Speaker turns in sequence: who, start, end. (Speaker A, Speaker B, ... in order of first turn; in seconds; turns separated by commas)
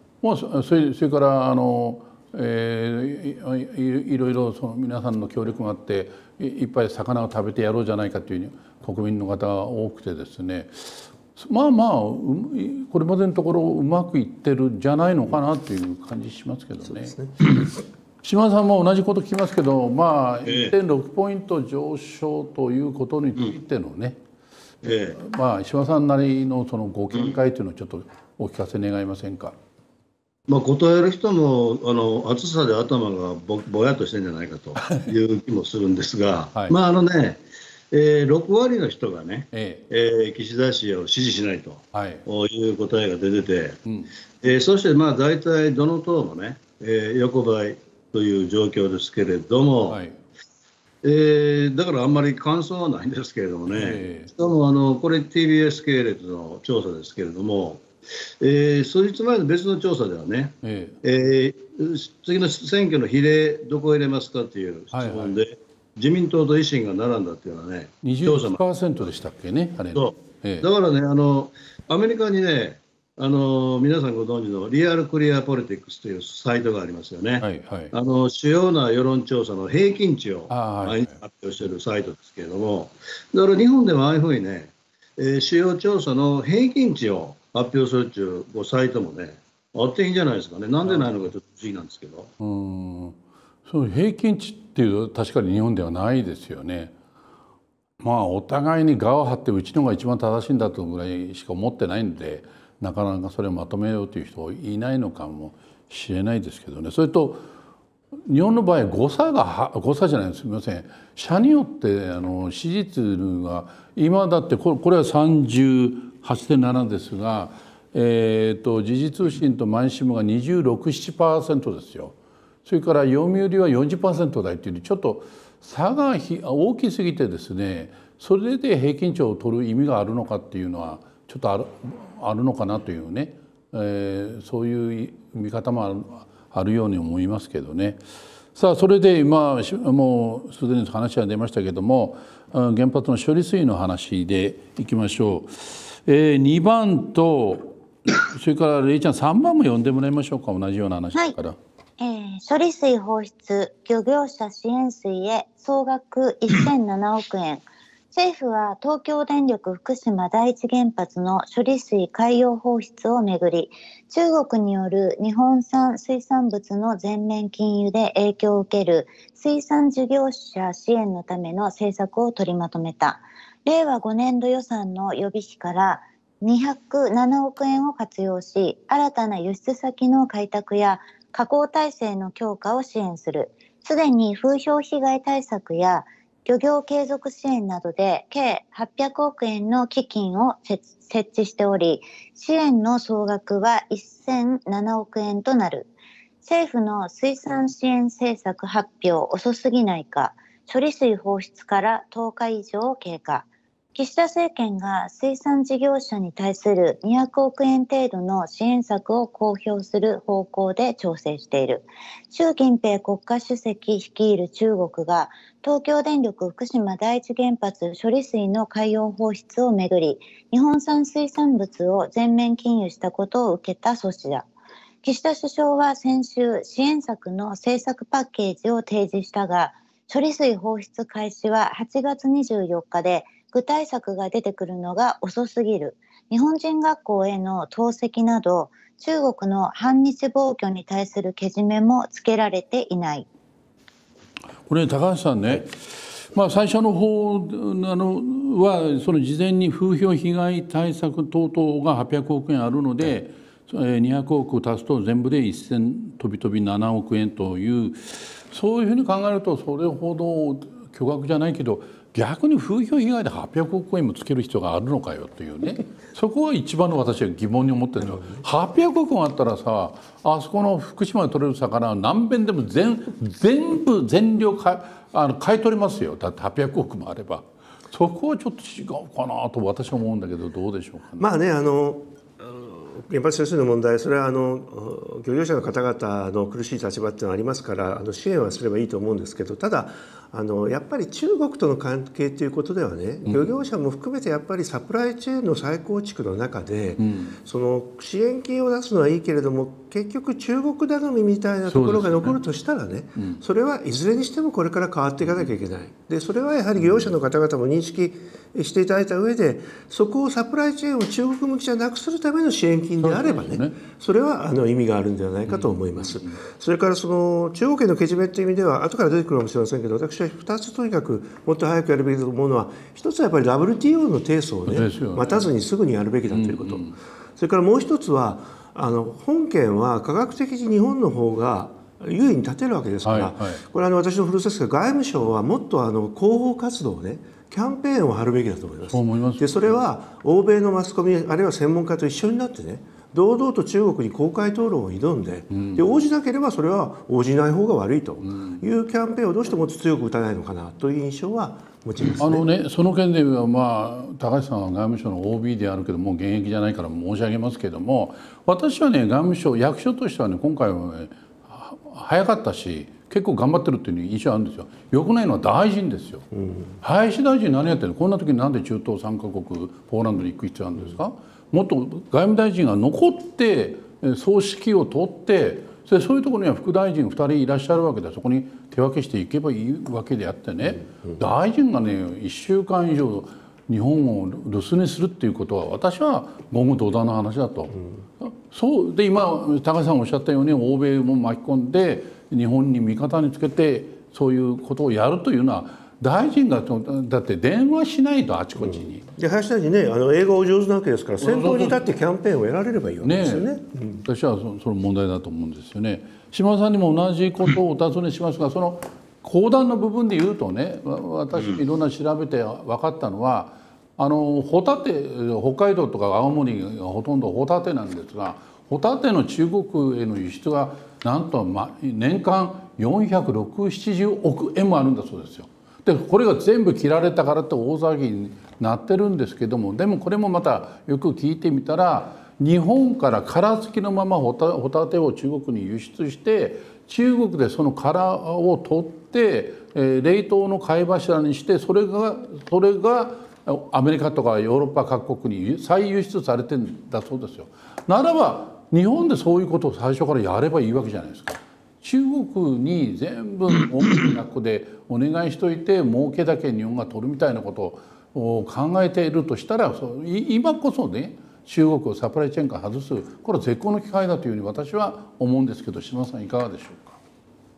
Speaker A: 0.2-17.7, Speaker B: 16.9-17.4, Speaker A: 18.2-24.2, Speaker C: 20.4-20.8, Speaker C: 24.8-25.2, Speaker A: 25.2-29.5, Speaker C: 30.5-43.8, Speaker A: 34.8-35.1, Speaker A: 39.5-39.9, Speaker A: 41.9-42.2, Speaker C: 44.4-50.0, Speaker A: 49.9-50.2, Speaker C: 51.0-57.9, Speaker A: 53.7-54.3, Speaker C: 58.4-68.6, Speaker A: 60.6-61.0, Speaker A: 64.9-65.4, Speaker A: 68.0-70.7, Speaker C: 70.0-92.3, Speaker A: 77.4-77.9, Speaker A: 80.5-81.2, Speaker A: 90.8-91.2, Speaker A: 92.4-96.9, Speaker A: 98.0-107.4, Speaker A: 108.3-138.0, Speaker A: 138.5-151.6, Speaker D: 152.0-195.9, Speaker D: 196.4-224.5, Speaker D: 225.0-243.3, Speaker A: 244.7-281.2, Speaker B: 281.2-352.5, Speaker A: 297.0-297.4, Speaker A: 301.7-302.4, Speaker A: 313.0-313.8, Speaker A: 315.5-316.4, Speaker A: 324.7-325.5, Speaker A: 326.3-327.0, Speaker A: 333.1-333.6, Speaker A: 338.9-339.8, Speaker A: 345.5-345.9, Speaker A: 348.2-348.6, Speaker A: 352.0-366.3, Speaker B: 366.3-366.7, Speaker A: 366.8-399.1, Speaker B: 398.6-404.0, Speaker A: 401.2-401.8, Speaker A: 403.0-403.5, Speaker A: 404.0-467.0